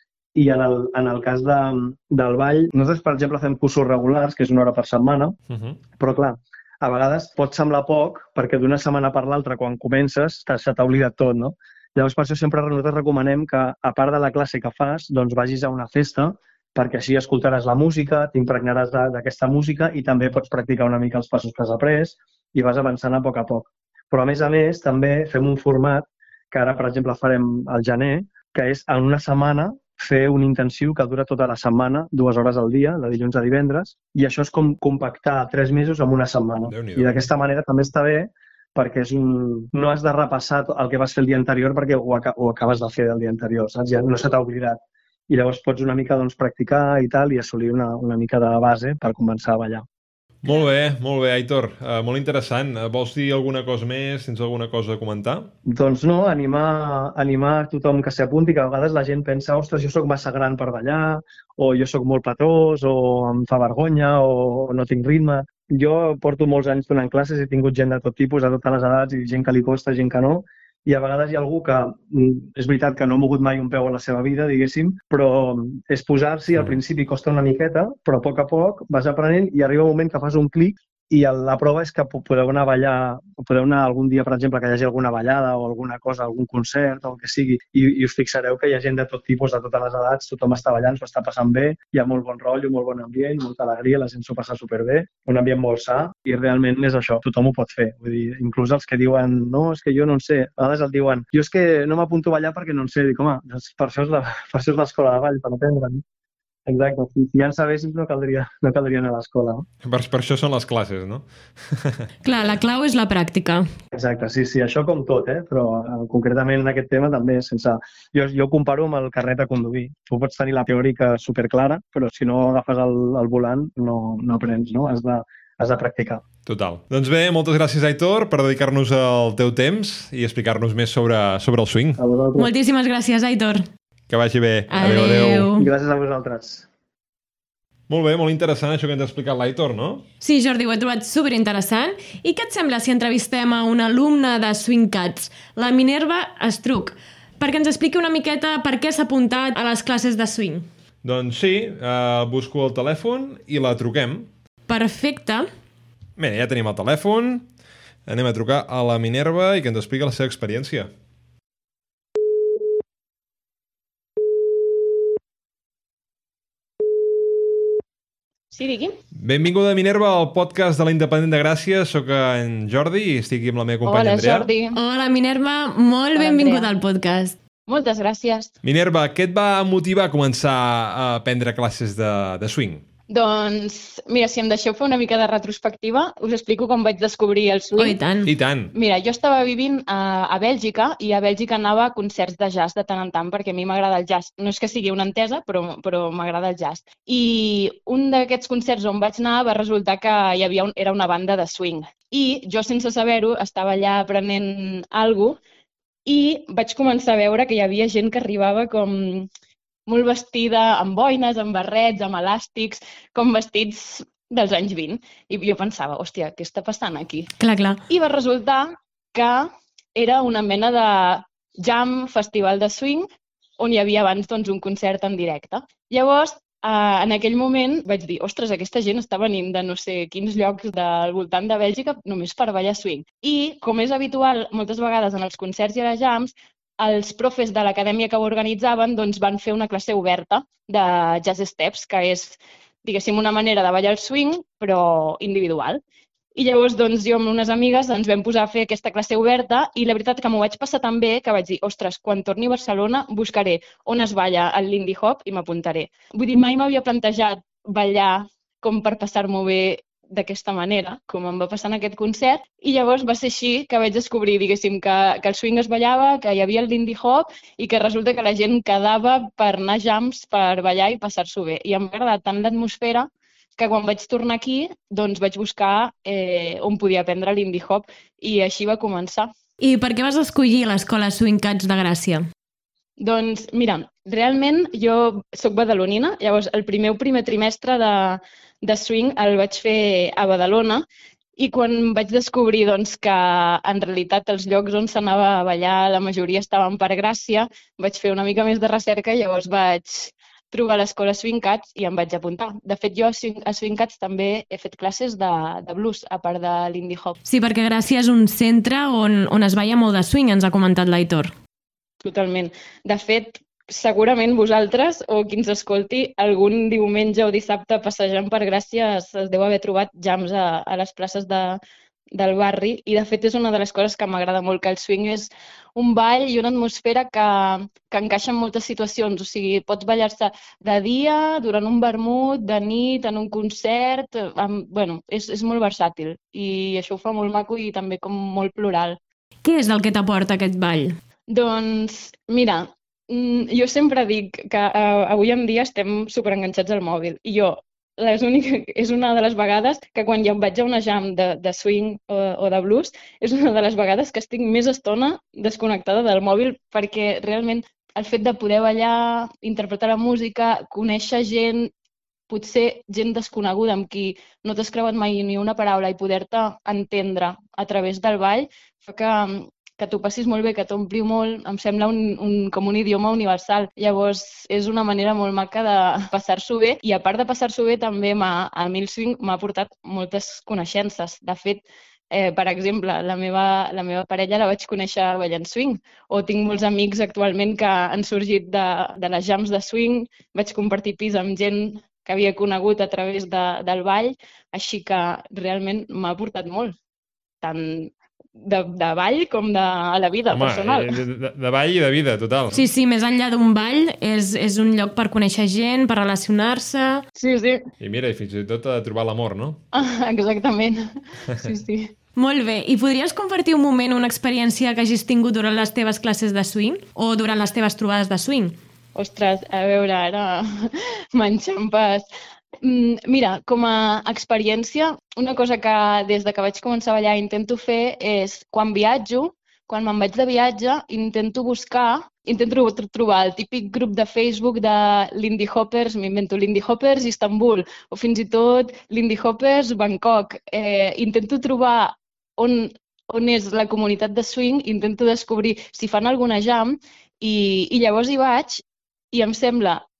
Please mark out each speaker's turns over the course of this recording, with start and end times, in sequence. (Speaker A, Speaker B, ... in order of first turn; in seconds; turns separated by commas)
Speaker A: 0.3-5.4, Speaker B: 5.5-5.8, Speaker A: 6.0-49.8, Speaker B: 36.6-37.3, Speaker B: 50.4-55.5, Speaker A: 55.6-106.0, Speaker A: 106.7-109.7, Speaker B: 109.8-112.1, Speaker C: 112.2-113.7, Speaker A: 113.9-126.2, Speaker B: 126.5-132.0, Speaker A: 132.0-132.5, Speaker C: 132.4-133.7, Speaker B: 134.1-135.5, Speaker C: 134.7-135.7, Speaker A: 135.6-136.7, Speaker B: 137.9-140.1, Speaker C: 140.2-150.7, Speaker B: 151.0-154.3, Speaker C: 154.7-155.5, Speaker B: 156.2-157.5, Speaker B: 158.1-160.9, Speaker D: 168.5-169.0, Speaker B: 169.2-174.5, Speaker D: 173.8-174.8, Speaker C: 174.7-177.4, Speaker D: 176.2-176.7, Speaker D: 177.7-178.5, Speaker B: 178.6-182.8, Speaker D: 183.1-188.0, Speaker C: 187.8-188.3, Speaker B: 188.2-188.7, Speaker D: 188.7-205.4, Speaker D: 206.1-209.3, Speaker D: 209.9-217.3, Speaker C: 217.4-217.8, Speaker D: 217.9-223.1, Speaker D: 223.6-245.8, Speaker D: 246.3-279.3, Speaker C: 279.6-282.3, Speaker D: 283.0-290.9, Speaker D: 291.4-307.2, Speaker C: 307.2-311.3, Speaker D: 312.0-321.6, Speaker D: 322.1-339.0, Speaker C: 339.4-341.0, Speaker D: 341.3-361.7, Speaker D: 362.3-396.8, Speaker D: 397.4-401.0, Speaker B: 400.3-402.6, Speaker C: 402.5-407.0, Speaker D: 407.2-407.7, Speaker B: 407.8-409.6, Speaker D: 409.7-411.9, Speaker C: 412.1-418.6, Speaker D: 418.9-422.1, Speaker D: 422.6-449.8